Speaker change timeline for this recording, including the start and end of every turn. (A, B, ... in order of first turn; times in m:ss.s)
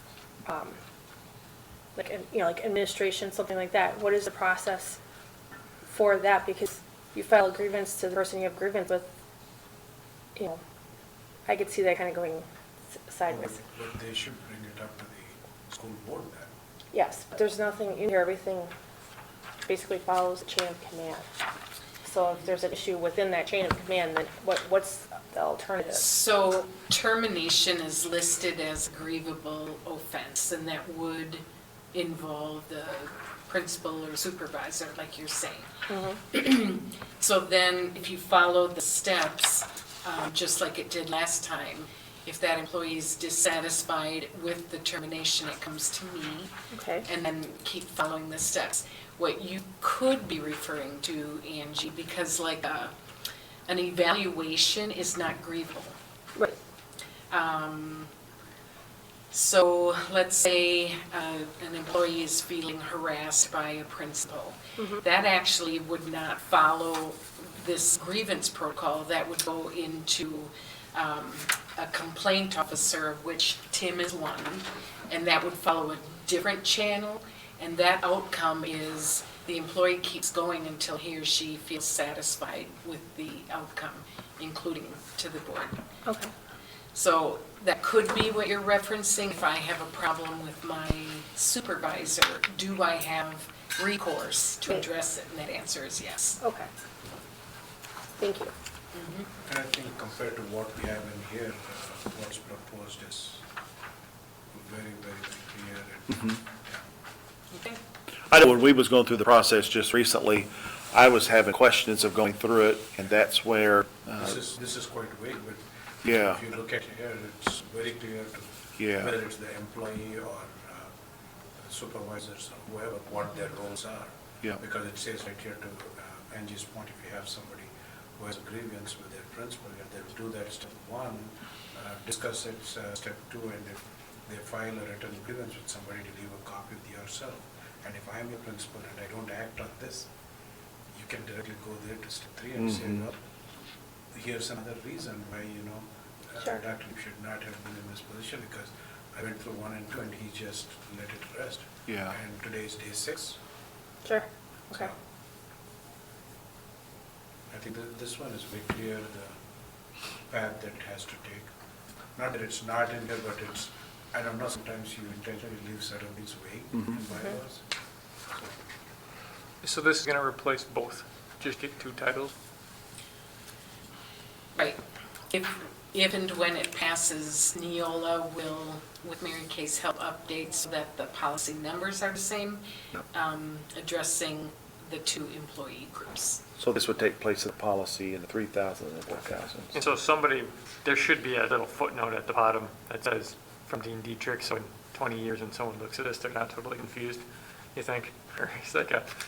0:00.4-0:00.8 A
0:01.9-0:05.0 A
0:05.8-0:09.1 A
0:10.3-0:10.6 A
0:11.5-0:12.4 A
0:13.0-0:13.5 A
0:13.2-0:16.5 B
0:16.9-0:18.7 A
0:19.7-0:21.2 A
0:22.0-0:26.1 A
0:25.9-0:35.7 C
0:35.9-0:36.2 A
0:36.3-0:46.5 C
0:46.7-0:47.0 A
0:47.0-0:52.9 C
0:53.7-0:55.9 C
0:57.3-0:58.1 C
0:59.3-1:25.8 C
1:04.8-1:05.0 A
1:26.0-1:26.3 A
1:26.9-1:36.4 C
1:36.4-1:36.7 A
1:38.2-1:38.5 A
1:38.9-1:39.3 C
1:39.4-1:43.4 B
1:44.5-1:46.8 B
1:47.5-1:47.8 C
1:48.3-1:54.4 D
1:54.2-2:00.9 B
1:56.0-1:56.4 D
1:58.8-1:59.1 D
2:01.6-2:20.1 B
2:20.9-2:23.2 B
2:22.6-2:23.0 D
2:24.1-2:33.4 B
2:31.9-2:32.2 D
2:34.0-2:34.9 A
2:34.7-2:35.0 B
2:37.5-2:39.3 B
2:40.3-2:41.5 B
2:42.2-2:47.6 B
2:49.6-2:52.3 E
2:55.3-3:06.4 C
3:06.6-3:09.8 D
3:09.7-3:19.1 E